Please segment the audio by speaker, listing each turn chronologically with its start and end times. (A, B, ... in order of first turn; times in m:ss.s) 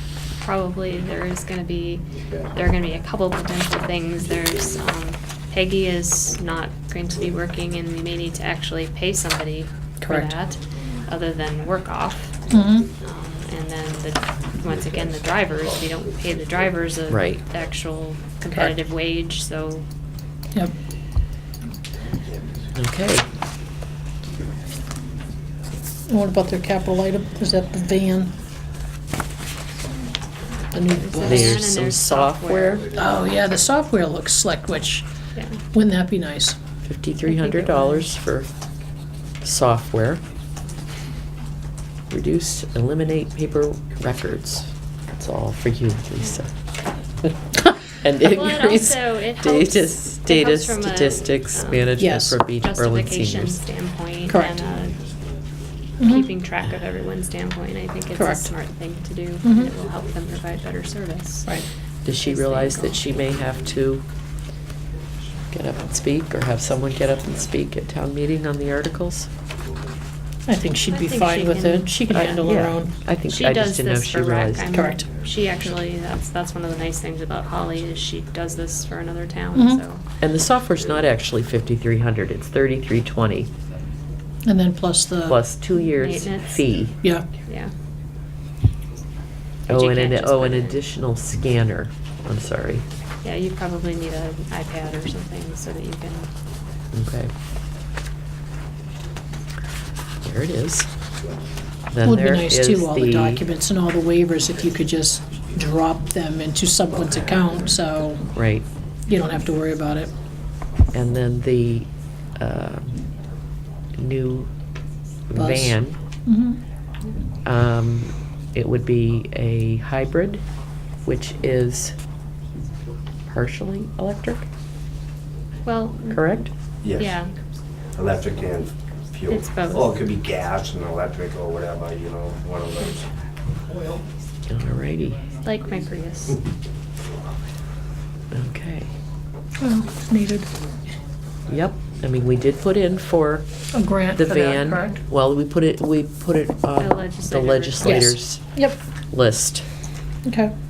0:00.4-0:12.4 A
0:02.1-0:03.0 B
0:04.2-0:04.9 B
0:10.0-0:10.3 C
0:12.4-0:13.1 B
0:12.5-0:12.9 C
0:13.0-0:19.8 A
0:14.6-0:16.8 B
0:17.1-0:17.4 D
0:22.1-0:22.8 B
0:22.8-0:23.2 D
0:26.1-0:28.3 C
0:30.7-0:31.6 C
0:30.8-0:32.8 A
0:31.2-0:32.9 D
0:32.7-0:33.4 B
0:32.9-0:35.0 C
0:35.7-0:36.6 C
0:36.8-0:38.5 D
0:37.3-0:38.0 A
0:39.4-0:40.2 D
0:42.1-0:46.5 D
0:47.9-0:53.6 D
0:48.2-0:51.9 A
0:51.0-0:51.9 B
0:52.0-0:52.4 C
0:52.6-0:54.9 A
0:54.3-0:54.5 C
0:54.5-0:56.1 B
0:56.0-0:56.3 C
0:56.0-1:01.5 A
0:58.1-0:58.5 C
0:59.4-0:59.7 C
0:59.7-1:00.9 B
1:02.0-1:04.0 D
1:02.2-1:03.2 A
1:02.9-1:03.9 B
1:05.5-1:09.3 D
1:09.5-1:10.0 B
1:10.5-1:13.0 C
1:10.9-1:12.6 A
1:12.1-1:14.8 D
1:13.3-1:20.0 A
1:14.7-1:15.1 C
1:15.0-1:15.7 B
1:18.4-1:18.8 B
1:19.5-1:19.8 C
1:20.2-1:23.5 D
1:20.8-1:21.0 B
1:24.4-1:25.4 C
1:25.2-1:27.0 D
1:25.9-1:26.8 A
1:27.4-1:27.7 A
1:29.7-1:30.8 A
1:29.7-1:32.8 D
1:33.2-1:36.3 A
1:36.9-1:37.3 D
1:40.2-1:40.9 D
1:41.2-1:41.7 B
1:41.9-1:43.4 D
1:42.0-1:48.3 C
1:47.0-1:47.8 B
1:48.3-1:48.6 D
1:49.1-1:50.1 C
1:50.9-1:53.0 D
1:54.0-1:54.5 D
1:55.3-1:56.0 D
1:55.3-1:56.6 C
1:57.4-2:00.4 D
2:01.0-2:01.9 D
2:03.3-2:04.4 D
2:05.6-2:06.4 A
2:06.1-2:06.5 D
2:06.8-2:07.2 B
2:06.9-2:07.3 A
2:07.9-2:13.2 B
2:09.3-2:10.0 A
2:14.5-2:15.2 D
2:15.4-2:16.4 A
2:18.3-2:18.9 D
2:19.6-2:20.5 C
2:21.5-2:23.5 D
2:23.7-2:25.0 C
2:24.1-2:28.4 D
2:26.8-2:28.1 A
2:27.8-2:28.8 C
2:29.1-2:29.6 D
2:30.2-2:30.5 C